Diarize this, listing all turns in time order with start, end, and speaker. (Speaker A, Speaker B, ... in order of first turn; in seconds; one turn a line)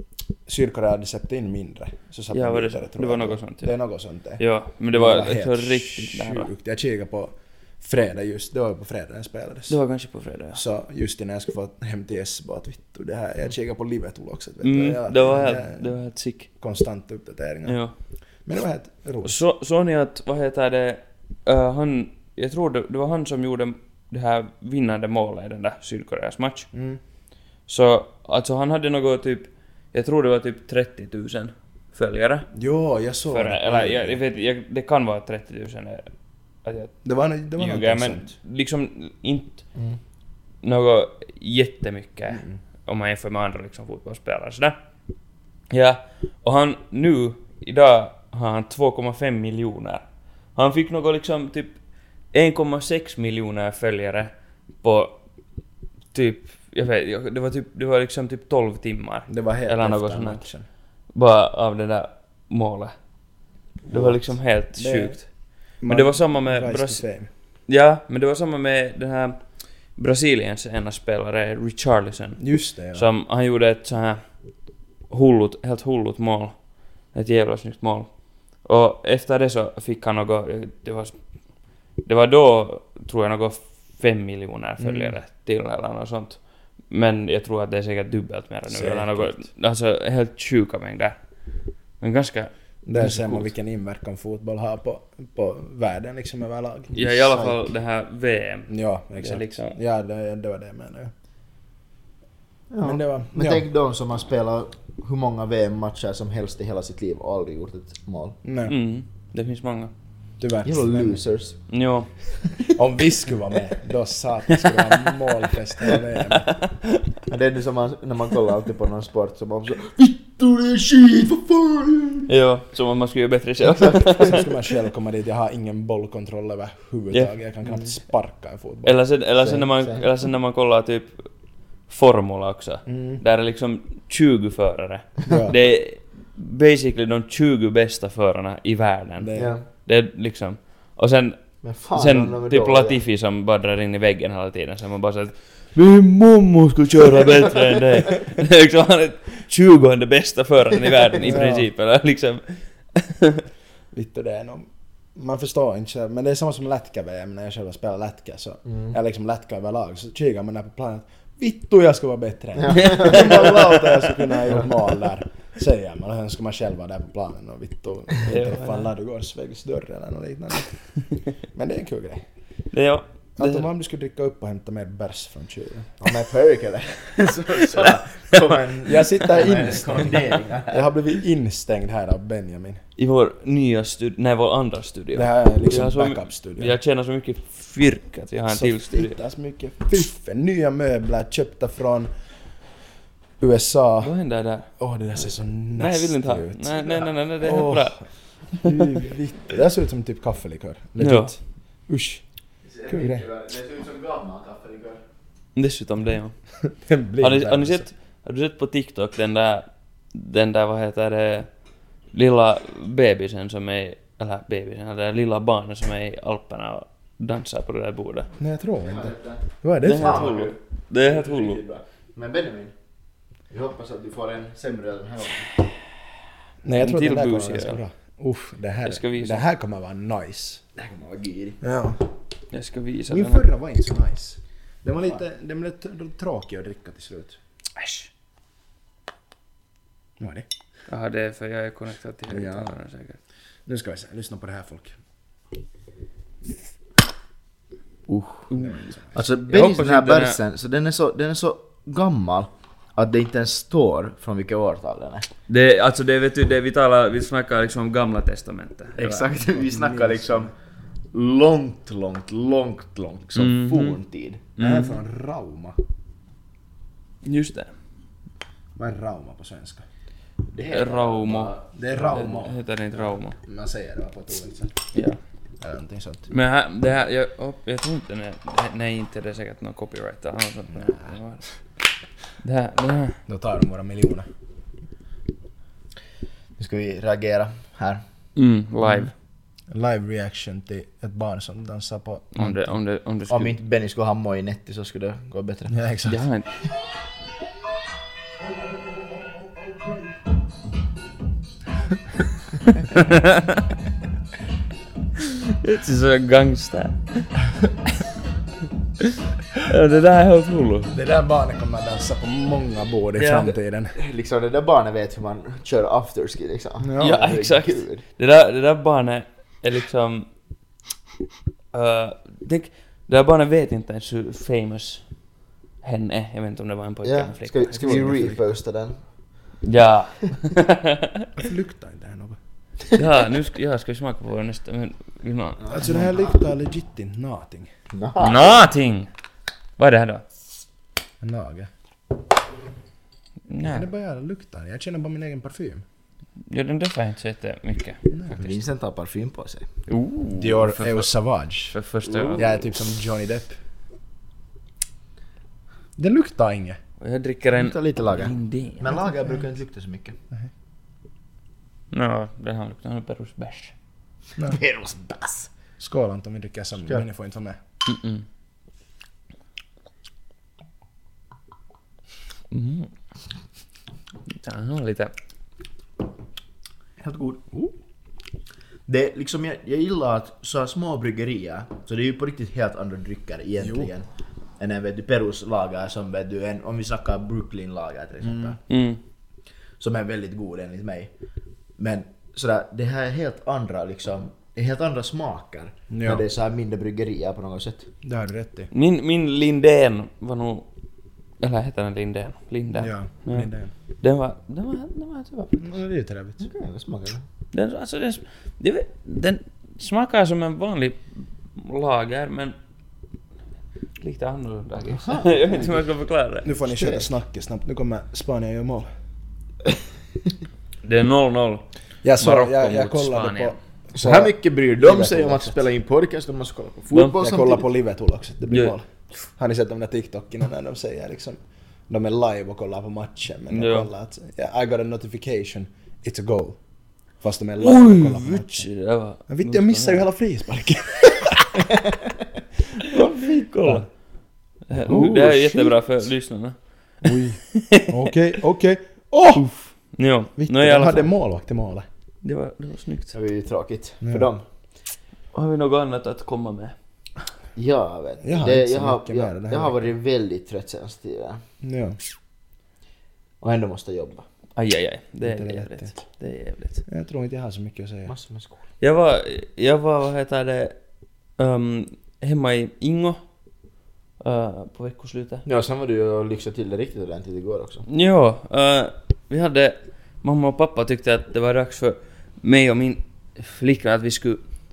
Speaker A: 0.5-9.8
Speaker B: 2.3-3.8
Speaker B: 4.4-6.5
Speaker B: 9.7-10.6
Speaker A: 10.5-16.0
Speaker B: 14.6-16.5
Speaker A: 16.6-17.8
Speaker B: 17.7-17.9
Speaker A: 18.5-19.4
Speaker B: 19.2-26.7
Speaker A: 26.7-27.0
Speaker B: 27.7-32.5
Speaker A: 32.5-34.2
Speaker B: 33.3-36.1
Speaker B: 36.6-37.0
Speaker A: 37.0-38.3
Speaker B: 37.6-39.6
Speaker B: 40.6-44.8
Speaker A: 42.3-42.6
Speaker B: 45.7-51.8
Speaker B: 52.3-54.3
Speaker B: 54.8-55.2
Speaker B: 56.1-60.5
Speaker A: 59.3-60.6
Speaker B: 61.1-62.9
Speaker A: 63.9-65.2
Speaker B: 63.9-65.3
Speaker A: 65.8-67.3
Speaker B: 65.8-67.0
Speaker B: 67.7-69.4
Speaker B: 70.0-74.2
Speaker A: 72.4-73.1
Speaker B: 75.1-76.6
Speaker B: 77.1-81.2
Speaker B: 82.0-91.2
Speaker A: 84.8-85.2
Speaker A: 88.7-89.5
Speaker B: 92.0-93.5
Speaker A: 92.9-97.4
Speaker B: 96.9-99.8
Speaker A: 98.7-101.1
Speaker C: 102.7-108.4
Speaker A: 102.8-103.7
Speaker A: 108.4-108.8
Speaker B: 108.7-109.9
Speaker A: 110.4-111.2
Speaker C: 110.6-111.6
Speaker B: 111.7-112.1
Speaker A: 112.8-116.6
Speaker B: 116.3-116.7
Speaker C: 117.3-122.3
Speaker B: 122.3-124.5
Speaker C: 123.8-124.0
Speaker A: 124.2-129.0
Speaker B: 128.8-131.2
Speaker C: 129.4-130.1
Speaker B: 131.9-153.4
Speaker A: 132.9-133.2
Speaker A: 135.3-135.6
Speaker A: 139.2-139.6
Speaker C: 139.4-139.7
Speaker C: 141.6-143.0
Speaker A: 151.2-151.7
Speaker A: 153.9-170.9
Speaker C: 158.7-159.0
Speaker C: 162.6-163.7
Speaker B: 162.8-164.1
Speaker B: 168.3-168.9
Speaker A: 171.5-172.2
Speaker B: 172.7-173.7
Speaker A: 173.4-176.0
Speaker C: 176.0-180.8
Speaker A: 178.8-182.8
Speaker B: 183.0-189.2
Speaker A: 185.1-186.8
Speaker A: 188.5-192.1
Speaker A: 193.4-194.1
Speaker B: 194.0-194.7
Speaker A: 194.8-198.0
Speaker B: 195.8-198.9
Speaker A: 198.6-202.2
Speaker B: 201.0-201.3
Speaker C: 202.7-205.0
Speaker A: 202.9-203.2
Speaker B: 205.6-206.4
Speaker A: 206.7-207.9
Speaker B: 207.2-211.5
Speaker B: 212.1-218.3
Speaker A: 218.4-220.3
Speaker C: 218.8-222.7
Speaker B: 219.8-221.6
Speaker C: 223.5-225.6
Speaker A: 226.6-230.6
Speaker B: 226.8-227.8
Speaker B: 228.8-229.4
Speaker C: 230.8-231.6
Speaker A: 231.6-232.0
Speaker B: 232.5-233.5
Speaker A: 233.1-237.4
Speaker B: 237.8-238.1
Speaker A: 240.2-240.5
Speaker B: 240.9-243.2
Speaker A: 242.3-242.7
Speaker A: 243.7-244.9
Speaker C: 248.1-248.5
Speaker B: 248.5-250.4
Speaker A: 248.6-249.0
Speaker C: 249.1-255.3
Speaker B: 255.5-259.2
Speaker C: 259.0-260.5
Speaker A: 259.1-260.5
Speaker C: 261.1-264.4
Speaker B: 263.4-264.0
Speaker B: 264.6-265.0
Speaker A: 264.6-265.8
Speaker B: 267.2-267.7
Speaker A: 268.8-269.8
Speaker C: 270.5-271.7
Speaker B: 270.7-273.4
Speaker A: 271.7-274.8
Speaker B: 274.9-275.2
Speaker A: 275.6-276.3
Speaker B: 276.3-281.5
Speaker A: 280.7-281.2
Speaker B: 282.4-283.2
Speaker A: 283.3-284.3
Speaker C: 286.6-288.0
Speaker B: 288.4-289.1
Speaker A: 288.9-289.1
Speaker A: 289.7-292.6
Speaker B: 292.4-293.6
Speaker C: 293.3-295.8
Speaker A: 295.7-296.2
Speaker B: 296.1-296.5
Speaker B: 302.9-303.6
Speaker B: 305.3-307.3
Speaker B: 309.5-310.9
Speaker A: 310.9-314.0
Speaker B: 313.2-313.5
Speaker C: 314.0-318.0
Speaker A: 316.8-317.3
Speaker B: 317.0-320.3
Speaker B: 321.7-325.0
Speaker B: 325.8-328.4
Speaker C: 327.0-329.0
Speaker A: 327.8-328.3
Speaker B: 329.6-331.3
Speaker A: 331.4-332.4
Speaker B: 332.9-335.8
Speaker C: 335.6-336.4
Speaker A: 335.7-337.7
Speaker C: 337.9-338.6
Speaker B: 338.2-339.1
Speaker B: 339.8-340.2
Speaker A: 341.2-341.7
Speaker B: 343.5-343.9
Speaker A: 343.6-345.8
Speaker B: 346.5-348.0
Speaker A: 348.1-348.6
Speaker C: 348.3-349.7
Speaker B: 349.9-351.1
Speaker A: 350.4-351.8
Speaker B: 351.7-352.5
Speaker C: 352.1-352.4
Speaker A: 352.3-353.6
Speaker A: 356.0-356.8
Speaker B: 357.0-359.0
Speaker C: 357.6-360.2
Speaker B: 361.9-363.7
Speaker C: 364.4-365.5
Speaker A: 365.8-367.6
Speaker B: 367.9-368.2
Speaker B: 372.5-372.9
Speaker B: 374.3-375.1
Speaker C: 377.0-377.4
Speaker C: 378.9-384.1
Speaker A: 383.6-383.9
Speaker C: 384.6-388.6
Speaker A: 388.2-388.6
Speaker B: 388.7-389.0
Speaker C: 389.8-391.1
Speaker C: 391.8-397.9
Speaker A: 395.9-396.2
Speaker A: 398.0-398.7
Speaker B: 398.7-400.7
Speaker B: 401.4-403.5
Speaker A: 402.8-403.7
Speaker B: 404.0-405.7
Speaker A: 405.6-406.5
Speaker C: 406.4-407.2
Speaker B: 407.5-412.6
Speaker B: 414.0-416.5
Speaker C: 414.9-415.8
Speaker A: 416.4-418.9
Speaker C: 416.7-417.0
Speaker B: 420.8-421.6
Speaker A: 422.0-425.6
Speaker B: 422.2-423.6
Speaker C: 423.9-427.7
Speaker A: 427.2-436.6
Speaker B: 433.5-433.9
Speaker A: 437.2-438.7
Speaker B: 437.6-440.1
Speaker A: 439.3-441.8
Speaker A: 442.8-443.9
Speaker B: 443.2-443.9
Speaker B: 444.7-448.1
Speaker A: 444.8-445.8
Speaker A: 447.0-449.5
Speaker B: 449.3-451.1
Speaker A: 450.4-451.9
Speaker B: 452.2-453.1
Speaker C: 453.1-454.4
Speaker A: 454.0-454.3
Speaker B: 455.3-456.8
Speaker C: 457.6-461.4
Speaker A: 458.2-459.9
Speaker A: 461.6-462.0
Speaker C: 463.4-464.2
Speaker B: 464.6-466.8
Speaker A: 465.2-465.9
Speaker A: 466.9-468.1
Speaker C: 468.1-468.6
Speaker B: 468.8-470.8
Speaker B: 471.4-473.2
Speaker B: 474.2-475.4
Speaker C: 475.4-477.8
Speaker B: 477.9-484.4